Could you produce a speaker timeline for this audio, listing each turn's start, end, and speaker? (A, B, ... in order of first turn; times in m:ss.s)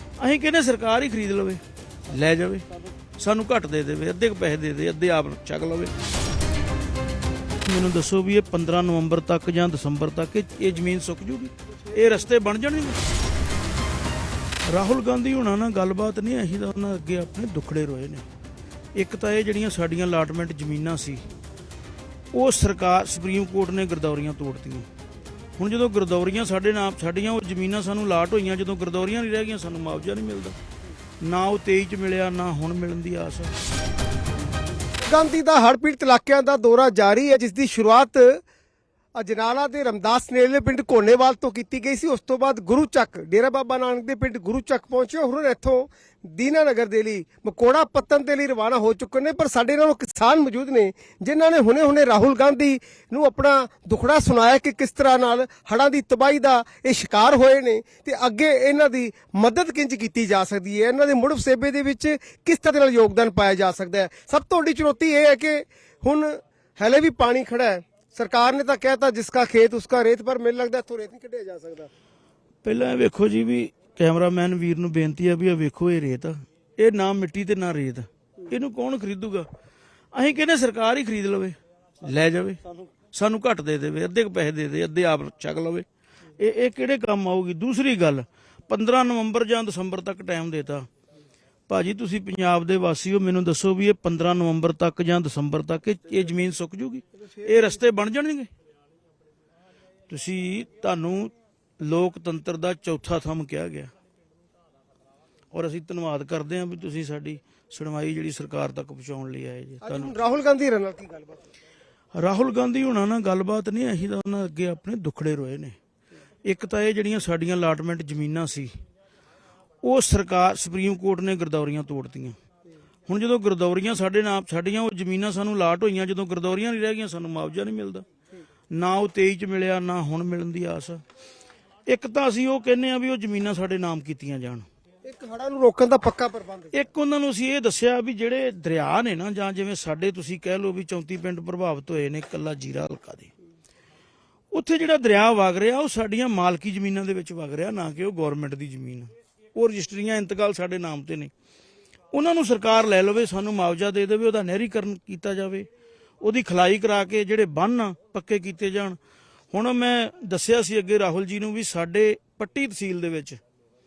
0:00.2-0:02.7 A
0:03.2-0:05.9 A
0:07.6-0:13.0 A
0:14.7-0:18.3 A
0:19.0-0:21.2 A
0:22.3-0:24.9 A
0:25.6-0:30.6 A
0:31.2-0:33.5 A
0:35.1-0:38.4 B
0:39.2-1:11.9 B
1:12.6-1:19.5 A
1:20.1-1:25.9 A
1:26.4-1:30.9 A
1:31.7-1:38.5 A
1:37.2-1:37.8 B
1:40.1-1:43.9 A
1:45.5-1:50.1 A
1:49.8-1:51.4 B
1:52.2-1:55.8 A
1:56.5-1:58.7 A
1:59.8-2:02.4 A
2:03.1-2:08.0 A
2:08.7-2:11.0 A
2:11.9-2:14.7 A
2:15.0-2:16.8 B
2:16.7-2:23.3 A
2:24.5-2:31.3 A
2:32.1-2:35.7 A
2:36.2-2:39.0 A
2:39.5-2:43.4 A